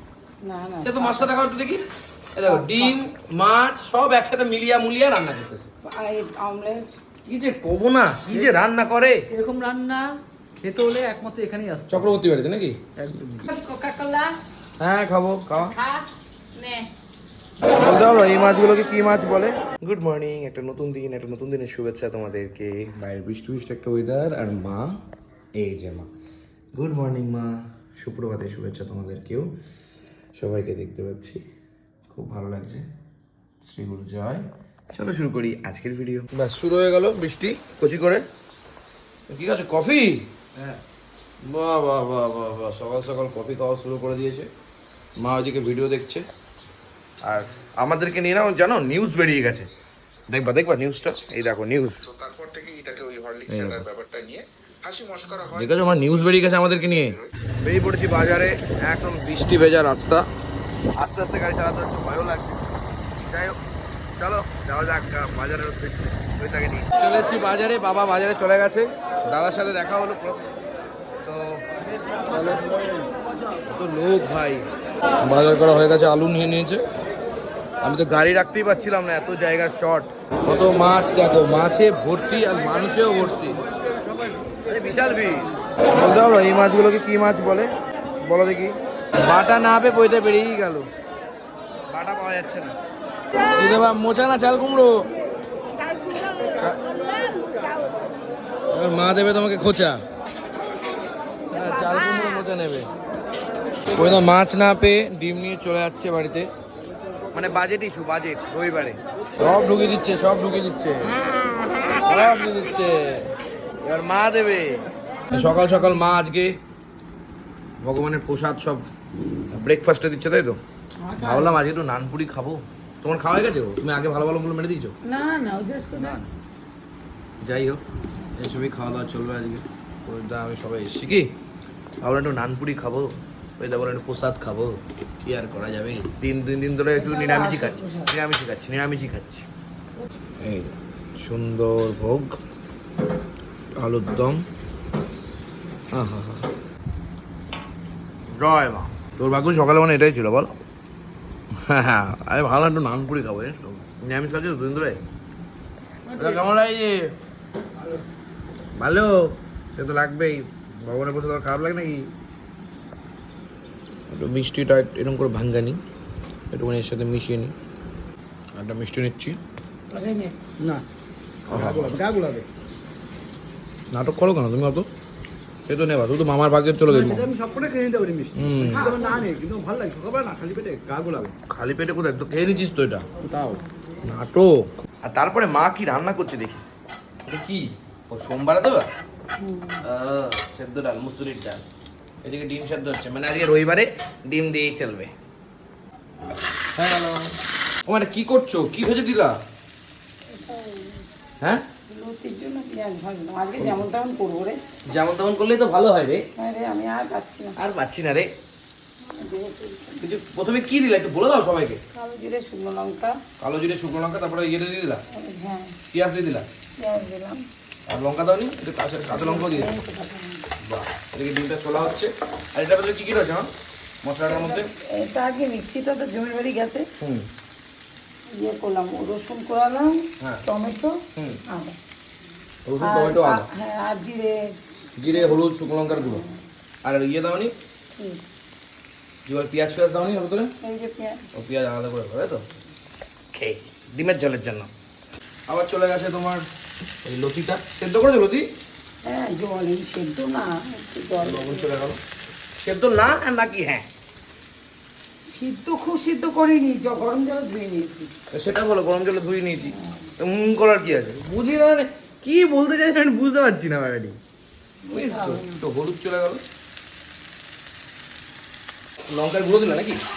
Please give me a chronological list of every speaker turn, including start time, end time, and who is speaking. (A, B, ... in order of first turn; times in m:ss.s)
0:00.4-0:01.3 A
0:00.8-0:01.8 B
0:02.4-0:05.7 B
0:02.4-0:03.0 A
0:05.8-0:06.9 A
0:07.2-0:09.2 B
0:09.3-0:12.1 C
0:11.9-0:12.8 B
0:13.0-0:14.4 C
0:14.8-0:15.8 B
0:15.6-0:16.9 C
0:17.6-0:24.9 B
0:25.6-0:26.1 B
0:26.7-0:29.5 B
0:30.4-0:31.4 B
0:32.1-0:32.8 B
0:33.6-0:38.2 B
0:39.3-0:40.8 B
0:41.4-0:44.5 B
0:45.2-0:46.2 B
0:47.2-0:49.7 B
0:50.3-0:52.1 B
0:52.2-0:55.4 D
0:53.5-0:53.9 B
0:55.5-1:00.2 B
1:01.0-1:02.6 B
1:03.2-1:03.6 B
1:04.2-1:10.4 B
1:11.2-1:11.6 B
1:12.3-1:12.6 B
1:13.7-1:14.6 B
1:15.2-1:16.8 B
1:17.8-1:23.6 B
1:24.6-1:30.9 B
1:31.9-1:32.7 B
1:33.6-1:35.1 B
1:36.5-1:36.8 B
1:38.7-1:40.0 B
1:41.5-1:42.9 B
1:44.0-1:46.5 B
1:47.3-1:51.2 B
1:52.0-1:53.3 B
1:53.8-1:56.6 B
1:55.3-1:55.9 A
1:57.8-1:58.8 B
1:59.5-2:00.6 B
2:01.0-2:01.6 A
2:01.2-2:04.9 B
2:05.0-2:06.2 A
2:06.0-2:06.2 C
2:07.4-2:07.8 B
2:08.4-2:11.3 B
2:12.0-2:19.5 B
2:16.9-2:18.1 A
2:20.4-2:22.4 B
2:23.8-2:24.4 B
2:25.9-2:26.5 B
2:28.4-2:30.6 B
2:31.6-2:35.0 B
2:36.1-2:36.4 C
2:36.2-2:37.0 B
2:38.8-2:39.1 B
2:39.8-2:42.1 B
2:44.1-2:45.8 B
2:46.5-2:47.5 B
2:48.6-2:49.4 B
2:49.9-2:50.4 A
2:50.6-2:50.8 C
2:51.5-2:52.0 B
2:51.5-2:52.4 C
2:53.9-2:54.9 B
2:55.7-2:57.3 B
2:56.9-3:01.3 C
2:58.3-2:58.9 B
2:58.6-2:59.3 A
3:01.5-3:03.1 B
3:03.2-3:03.6 C
3:04.0-3:06.6 B
3:07.2-3:08.9 B
3:09.4-3:09.8 A
3:09.8-3:11.6 B
3:12.2-3:15.1 B
3:16.8-3:17.3 B
3:17.8-3:19.4 B
3:20.3-3:21.1 A
3:21.9-3:24.6 A
3:24.9-3:26.2 B
3:26.4-3:27.6 A
3:27.6-3:28.3 B
3:29.0-3:30.0 A
3:30.0-3:31.8 B
3:31.9-3:33.2 A
3:33.4-3:35.0 B
3:35.1-3:35.7 A
3:35.9-3:36.4 B
3:36.8-3:37.5 A
3:37.9-3:39.7 B
3:39.1-3:40.5 A
3:40.6-3:43.5 B
3:44.0-3:44.7 B
3:44.2-3:46.9 A
3:47.0-3:47.2 B
3:48.3-3:51.8 A
3:51.2-3:51.4 B
3:52.6-3:53.4 B
3:52.8-3:56.4 A
3:55.0-3:56.2 B
3:56.8-3:57.5 B
3:58.0-3:58.2 A
3:59.2-4:00.5 B
4:00.6-4:01.3 A
4:01.3-4:02.4 B
4:03.3-4:04.7 B
4:05.5-4:06.4 B
4:07.0-4:08.5 B
4:09.0-4:11.7 A
4:11.2-4:12.0 B
4:12.6-4:13.8 B
4:15.3-4:18.1 A
4:18.3-4:24.2 B
4:19.7-4:20.1 A
4:24.8-4:25.6 A
4:24.9-4:26.4 B
4:29.1-4:30.0 B